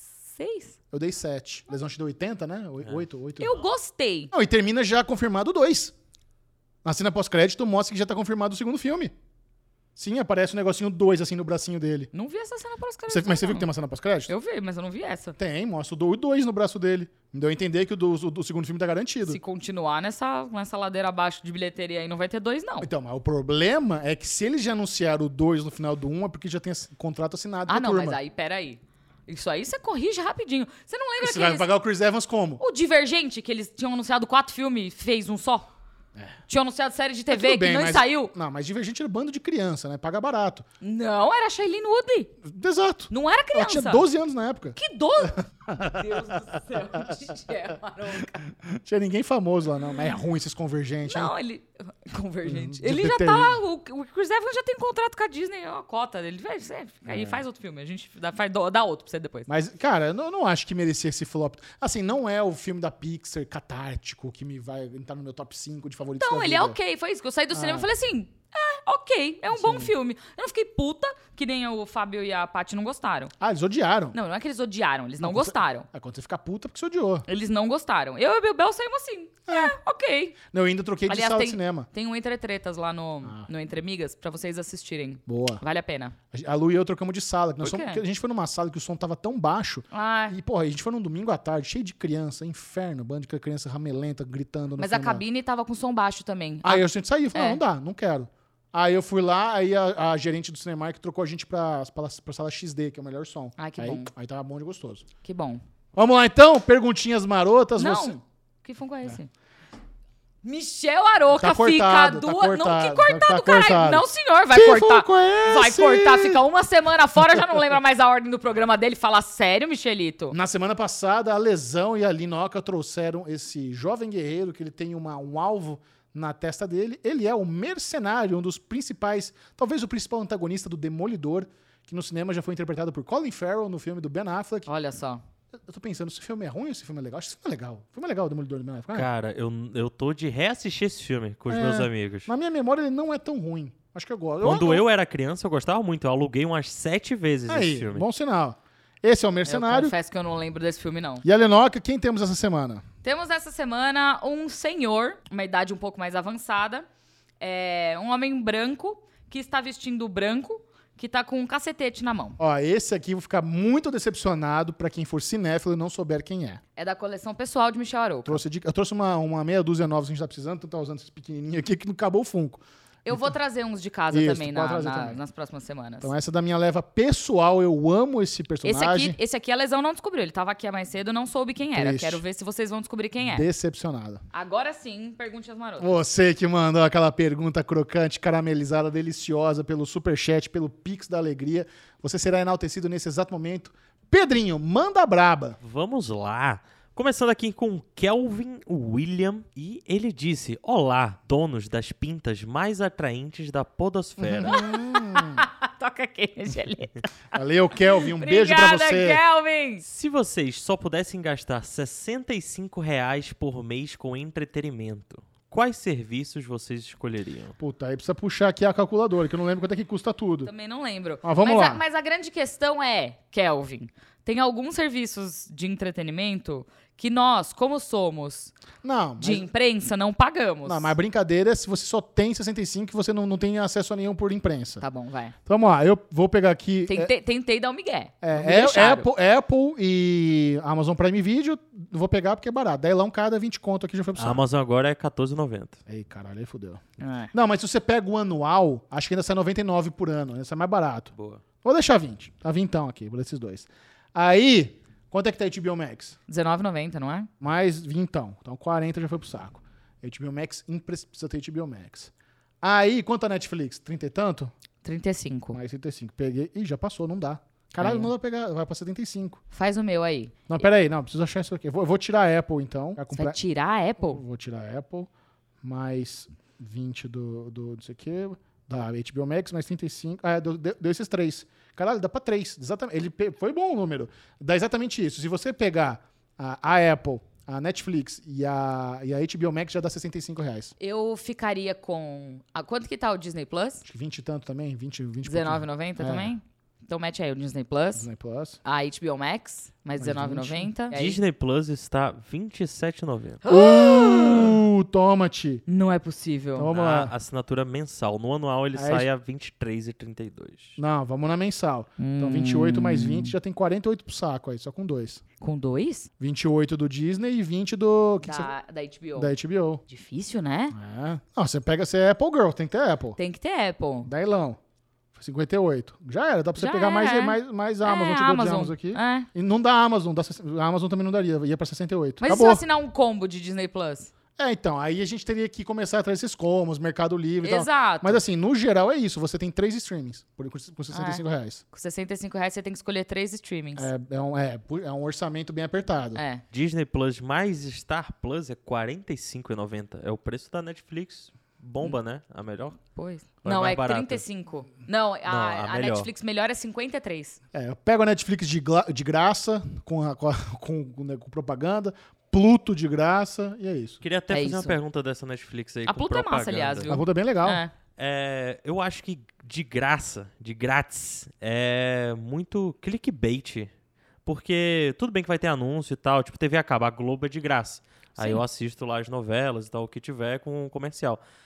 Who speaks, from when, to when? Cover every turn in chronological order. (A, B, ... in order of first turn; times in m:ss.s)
0:00.2-0:00.8 A
0:00.9-0:03.6 B
0:03.4-0:04.3 A
0:04.3-0:05.9 B
0:06.8-0:09.1 B
0:10.0-0:12.1 B
0:12.1-0:13.7 A
0:13.1-0:14.3 B
0:14.3-0:15.4 A
0:15.4-0:19.4 B
0:19.2-0:22.9 A
0:22.8-0:28.2 B
0:27.7-0:31.7 A
0:31.2-0:32.6 B
0:32.6-0:35.7 A
0:36.5-0:38.3 A
0:37.3-0:40.7 B
0:40.8-0:42.3 A
0:42.4-0:46.3 B
0:43.1-0:44.0 A
0:44.8-0:48.5 A
0:48.6-0:51.3 B
0:51.0-0:59.5 A
0:52.4-0:53.6 B
0:57.1-0:57.4 B
0:59.5-1:06.8 B
1:06.2-1:13.3 A
1:07.5-1:07.9 B
1:09.5-1:09.9 B
1:13.4-1:14.2 B
1:14.1-1:15.9 A
1:15.2-1:17.3 B
1:17.3-1:20.4 A
1:19.5-1:19.8 B
1:20.5-1:21.9 B
1:21.1-1:26.2 A
1:23.2-1:23.5 B
1:25.3-1:25.6 B
1:26.3-1:35.2 B
1:27.6-1:28.0 A
1:29.9-1:30.4 A
1:34.8-1:37.6 A
1:36.6-1:45.0 B
1:43.6-1:44.1 A
1:45.2-1:45.6 A
1:46.0-1:48.2 B
1:47.8-1:49.3 A
1:50.4-2:00.4 A
1:51.4-1:56.4 B
2:00.3-2:14.7 B
2:14.7-2:15.2 A
2:15.7-2:19.1 B
2:18.9-2:22.3 C
2:21.5-2:24.8 B
2:24.4-2:28.1 C
2:27.5-2:29.9 B
2:29.4-2:31.2 A
2:31.2-2:32.8 B
2:33.0-2:36.9 A
2:37.4-2:42.4 A
2:42.4-2:46.6 B
2:46.8-2:48.4 A
2:48.2-2:53.3 B
2:53.1-2:56.1 A
2:54.1-2:55.2 B
2:56.0-2:59.2 B
2:58.6-3:03.5 A
3:01.7-3:02.2 B
3:03.2-3:04.2 B
3:04.3-3:05.9 A
3:05.8-3:15.6 B
3:15.6-3:24.7 C
3:24.2-3:25.4 B
3:24.5-3:27.1 A
3:27.3-3:29.2 B
3:27.9-3:29.8 A
3:29.8-3:37.6 C
3:37.6-3:40.5 B
3:40.4-3:48.5 A
3:41.2-3:41.8 B
3:48.8-3:49.5 B
3:49.2-3:51.0 A
3:50.7-3:54.8 B
3:54.8-3:55.4 A
3:55.5-3:57.1 B
3:56.9-3:59.1 A
3:58.2-4:04.4 B
4:04.2-4:05.8 C
4:05.9-4:06.8 B
4:07.0-4:07.3 A
4:07.3-4:11.1 B
4:11.2-4:11.4 C
4:11.6-4:16.2 B
4:16.3-4:17.3 A
4:17.4-4:24.5 B
4:24.8-4:25.6 A
4:25.5-4:29.4 B
4:27.8-4:28.1 A
4:29.5-4:30.5 A
4:30.5-4:33.4 B
4:33.1-4:34.2 A
4:34.0-4:35.1 B
4:35.6-4:50.7 B
4:50.8-4:53.8 A
4:53.8-4:56.3 B
4:55.2-4:58.1 A
4:58.0-4:58.6 B
4:58.6-5:01.2 A
5:00.0-5:00.7 B
5:00.9-5:03.4 C
5:03.4-5:04.6 A
5:03.4-5:05.6 B
5:05.7-5:06.7 A
5:06.6-5:07.1 B
5:06.7-5:10.8 C
5:08.8-5:09.1 B
5:10.8-5:15.2 B
5:12.0-5:13.3 A
5:15.4-5:16.1 A
5:16.2-5:18.5 B
5:18.2-5:19.3 A
5:19.2-5:19.8 B
5:19.9-5:20.8 A
5:20.7-5:23.2 B
5:23.2-5:24.1 A
5:24.1-5:24.6 B
5:25.1-5:32.6 B
5:26.6-5:29.3 A
5:32.2-5:34.1 A
5:34.4-5:41.6 B
5:37.4-5:38.2 A
5:40.9-5:43.9 A
5:43.8-5:46.2 B
5:46.2-5:46.4 A
5:46.5-5:52.8 C
5:53.0-5:57.4 A
5:53.4-5:54.2 C
5:55.3-5:56.1 C
5:57.5-6:04.0 B
6:04.0-6:07.0 C
6:04.3-6:04.8 A
6:05.9-6:07.7 A
6:06.9-6:07.6 B
6:08.0-6:13.7 C
6:14.3-6:21.2 C
6:18.2-6:18.4 A